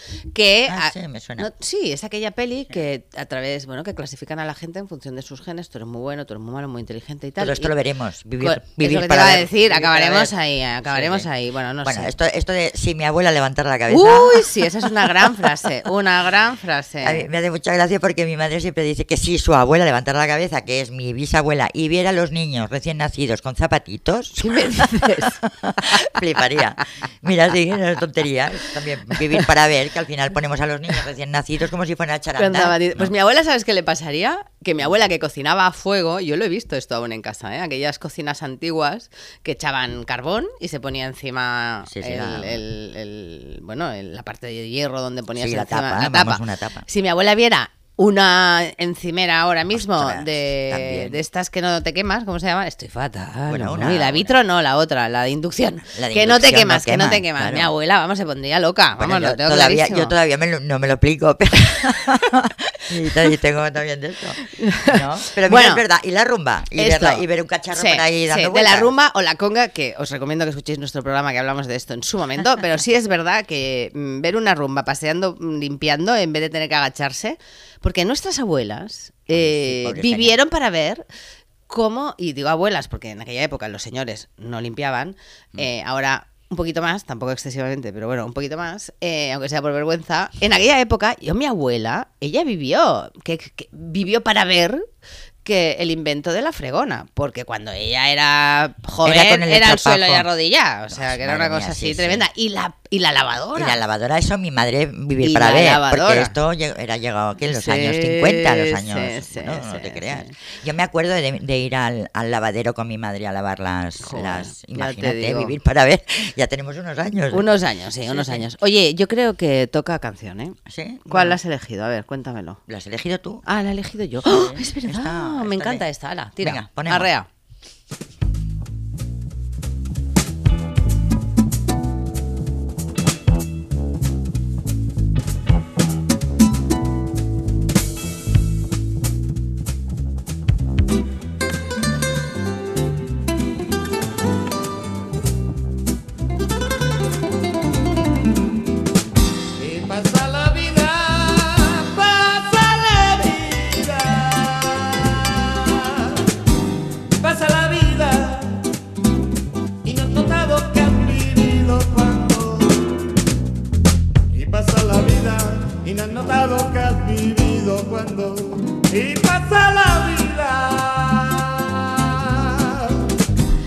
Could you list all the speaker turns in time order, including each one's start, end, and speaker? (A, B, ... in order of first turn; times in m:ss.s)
0:00.3-0:07.7 A
0:00.7-0:01.5 B
0:07.4-0:10.3 B
0:08.4-0:12.1 A
0:10.9-0:11.3 B
0:11.8-0:15.5 B
0:13.9-0:17.2 A
0:17.0-0:33.1 B
0:24.4-0:26.1 A
0:32.4-1:00.1 A
0:41.9-0:42.6 B
0:45.4-0:46.8 B
0:49.8-0:51.2 B
0:53.5-0:54.3 B
0:56.0-0:57.7 B
0:59.0-1:08.9 B
1:04.5-1:05.8 A
1:06.8-1:21.1 A
1:19.3-1:20.4 B
1:21.7-1:34.8 A
1:35.4-1:43.8 A
1:39.0-1:40.3 B
1:40.9-1:42.2 B
1:43.5-1:57.4 B
1:45.2-1:46.3 A
1:47.5-1:50.3 A
1:54.0-1:55.6 A
1:57.3-2:00.6 A
1:58.1-1:58.4 B
2:00.7-2:01.4 B
2:01.1-2:02.6 A
2:02.7-2:03.4 B
2:03.4-2:07.3 A
2:04.2-2:05.8 B
2:06.4-2:07.1 B
2:29.6-2:36.3 C
2:37.2-2:38.7 C
2:39.8-2:43.1 C
2:44.3-2:53.1 C